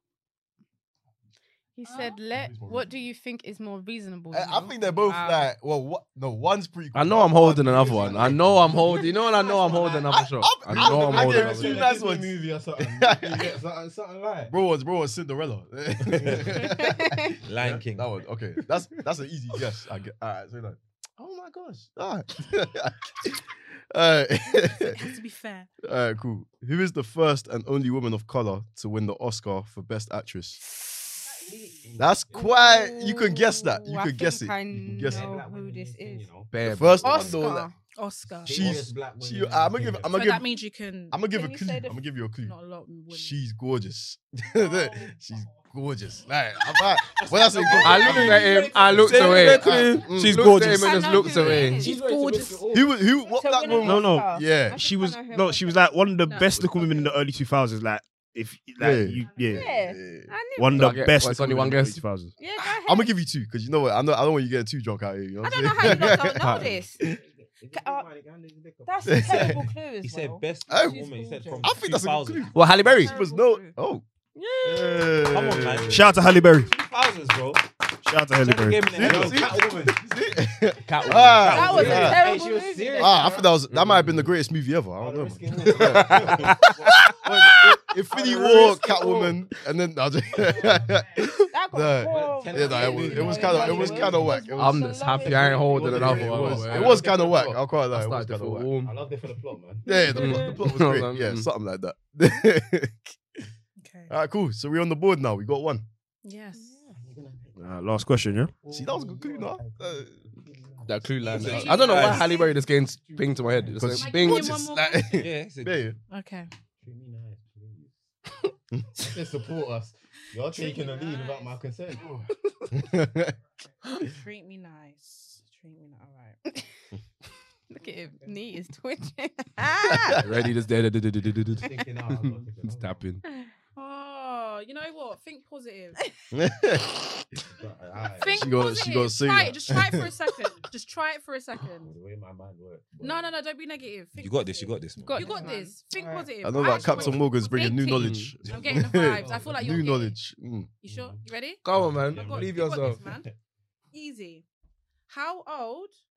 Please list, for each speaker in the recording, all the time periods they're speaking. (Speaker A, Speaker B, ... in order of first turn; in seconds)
Speaker A: 1.8-5.2, 16.8-17.3, 32.3-36.4, 37.0-37.7, 41.2-42.0, 50.7-52.0, 53.3-55.9, 59.4-60.9, 62.4-63.1, 65.4-67.0, 67.7-68.1, 68.8-71.6, 72.9-73.7, 74.3-75.4, 81.4-83.3, 91.5-96.0, 99.9-100.6, 106.6-106.9, 127.7-130.3, 145.0-146.3
Speaker B: 1.8-2.2, 5.1-5.5, 24.7-25.7, 38.0-38.8, 40.1-41.2, 42.4-43.4, 51.8-52.6, 56.2-57.1, 73.1-73.5, 103.8-104.1, 106.2-106.7, 111.2-112.6, 113.9-115.2, 116.1-116.5, 120.5-121.6, 123.9-126.4, 133.8-136.0, 138.2-141.9, 143.0-150.2, 150.8-153.3, 153.9-154.4, 155.1-155.9
Speaker C: 2.3-2.9, 4.3-8.7, 10.1-13.5, 14.5-25.0, 25.8-30.6, 32.0-35.3, 36.6-37.7, 38.5-40.5, 41.1-42.5, 43.1-51.6, 52.7-54.9, 58.8-60.3, 62.6-67.0, 69.1-69.6, 70.7-71.1, 71.6-74.0, 74.6-76.0, 78.9-82.2, 83.0-98.7, 99.8-103.1, 104.1-105.8, 108.7-110.1, 113.7-116.0, 122.7-123.3, 129.9-130.3, 136.3-137.2, 138.3-140.1, 146.4-150.7
Speaker D: 6.9-11.9, 36.5-37.1, 47.8-51.9, 60.7-62.0, 65.9-66.7, 72.5-73.1, 80.9-82.1, 83.7-84.3, 94.5-98.9, 100.1-101.5, 110.8-114.6, 130.2-133.2, 147.9-148.3, 151.6-153.0
Speaker E: 7.9-10.1, 10.7-14.5, 31.5-32.5, 35.0-37.2, 38.4-40.2, 47.1-49.7, 51.3-53.0, 67.0-69.7, 75.5-76.0, 78.9-80.0, 81.5-83.5, 85.0-87.2, 88.1-89.4, 92.0-94.5, 95.5-97.5, 98.8-100.5, 106.9-112.2, 113.4-113.7, 116.8-118.0, 119.0-122.2, 131.6-133.1, 137.4-138.5, 141.8-143.3, 146.6-147.2, 148.4-149.8, 150.9-153.3
Speaker F: 17.4-18.1, 48.9-50.1, 70.0-72.9, 75.3-77.6, 78.4-79.5, 81.5-81.9, 111.3-112.4, 115.2-115.8, 144.2-145.3
Speaker G: 49.9-50.9, 53.8-59.7, 60.5-62.3, 75.8-76.7, 78.0-78.9, 86.0-87.1, 107.6-108.5